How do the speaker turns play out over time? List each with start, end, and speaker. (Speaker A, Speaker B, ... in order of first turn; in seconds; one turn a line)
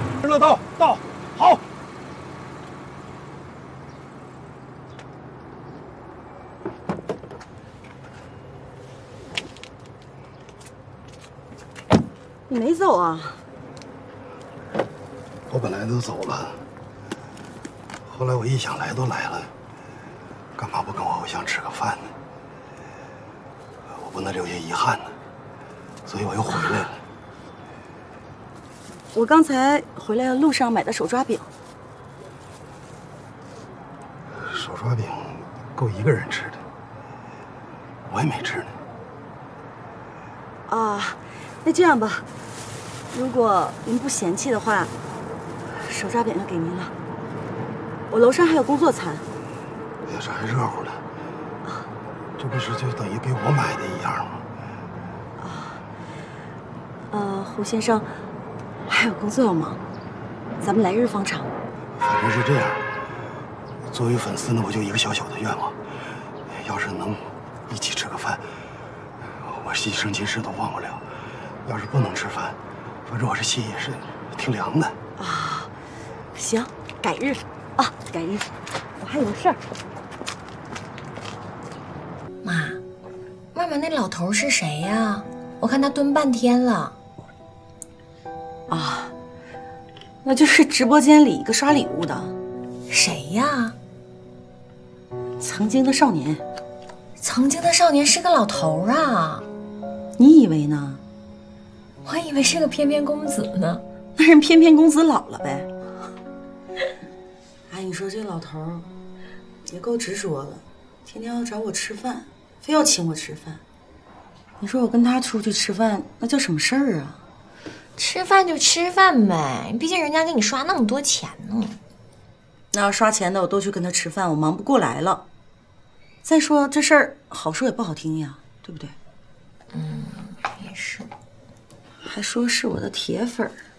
Speaker A: 12.5-13.4
Speaker B: 15.5-16.6
Speaker B: 18.1-19.5
Speaker B: 20.6-22.1
Speaker B: 23.9-25.2
Speaker B: 26.1-27.0
Speaker A: 29.1-31.5
Speaker B: 34.4-36.6
Speaker B: 38.1-38.8
Speaker A: 40.7-42.3
Speaker A: 43.1-44.9
Speaker A: 45.7-47.0
Speaker A: 48.1-49.3
Speaker B: 50.0-51.0
Speaker B: 52.4-54.5
Speaker A: 55.4-55.8
Speaker A: 57.1-58.1
Speaker A: 58.9-59.8
Speaker A: 60.6-61.5
Speaker B: 62.0-62.9
Speaker B: 63.9-65.8
Speaker B: 66.5-68.5
Speaker B: 69.4-71.0
Speaker B: 71.7-75.0
Speaker A: 75.2-75.7
Speaker A: 76.3-79.6
Speaker C: 82.4-82.8
Speaker C: 83.5-87.0
Speaker A: 88.7-89.1
Speaker A: 90.2-92.3
Speaker C: 92.9-93.8
Speaker A: 95.4-96.4
Speaker C: 97.2-99.5
Speaker A: 100.2-101.0
Speaker C: 102.0-103.8
Speaker A: 104.2-105.7
Speaker A: 107.7-108.9
Speaker A: 109.7-113.6
Speaker A: 114.6-117.2
Speaker C: 118.0-121.8
Speaker A: 122.7-125.2
Speaker A: 126.2-128.9
Speaker C: 129.7-131.1
Speaker A: 132.0-133.6